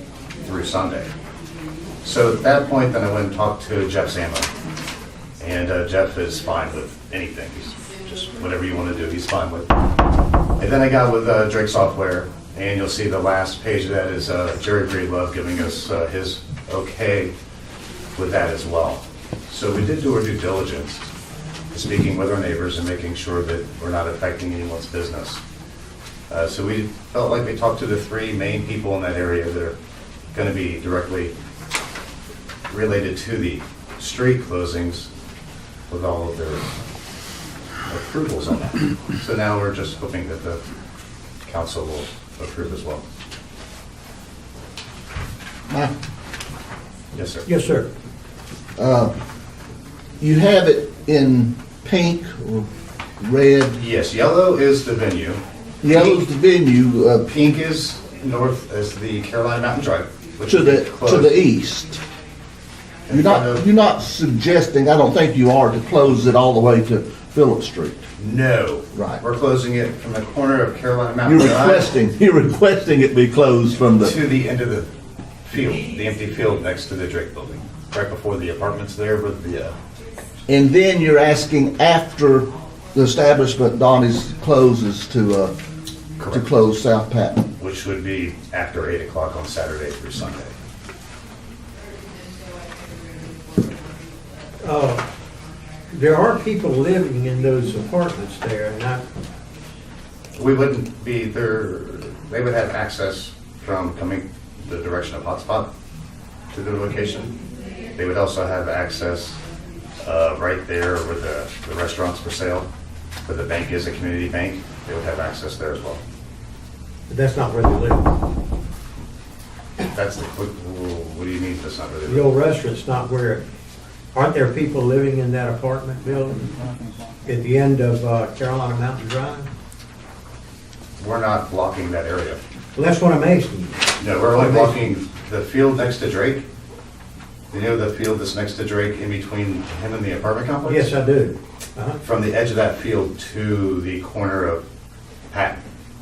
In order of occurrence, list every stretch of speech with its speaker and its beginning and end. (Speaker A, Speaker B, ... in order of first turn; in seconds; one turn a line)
Speaker A: 0.4-1.1
Speaker A: 2.0-4.5
Speaker A: 5.4-9.7
Speaker A: 10.6-17.3
Speaker A: 18.1-21.1
Speaker A: 21.7-25.4
Speaker A: 26.3-29.7
Speaker A: 30.3-31.3
Speaker A: 32.7-35.1
Speaker A: 35.9-36.7
Speaker A: 37.9-40.6
Speaker A: 41.5-43.0
Speaker B: 45.7-45.9
Speaker A: 47.1-47.5
Speaker C: 47.4-47.9
Speaker B: 48.8-49.1
Speaker B: 50.2-52.7
Speaker B: 53.2-53.8
Speaker A: 53.8-56.2
Speaker B: 55.8-57.3
Speaker A: 57.3-61.4
Speaker B: 60.5-62.0
Speaker A: 63.1-63.6
Speaker B: 63.1-68.0
Speaker A: 68.2-72.0
Speaker B: 68.9-69.2
Speaker B: 71.2-74.1
Speaker A: 74.0-74.9
Speaker A: 75.4-79.8
Speaker B: 80.5-85.5
Speaker A: 86.2-86.6
Speaker B: 86.3-87.5
Speaker A: 87.5-90.5
Speaker C: 94.6-95.0
Speaker C: 95.9-99.0
Speaker A: 100.3-105.7
Speaker A: 106.5-107.4
Speaker A: 107.9-109.4
Speaker A: 110.0-112.7
Speaker A: 113.2-116.0
Speaker C: 117.1-118.1
Speaker A: 119.8-122.3
Speaker C: 122.1-123.4
Speaker C: 124.1-126.5
Speaker C: 127.2-129.5
Speaker A: 131.0-132.4
Speaker C: 132.7-134.8
Speaker A: 134.0-136.4
Speaker A: 137.5-140.9
Speaker C: 140.6-142.0
Speaker A: 142.0-144.6
Speaker A: 145.3-145.6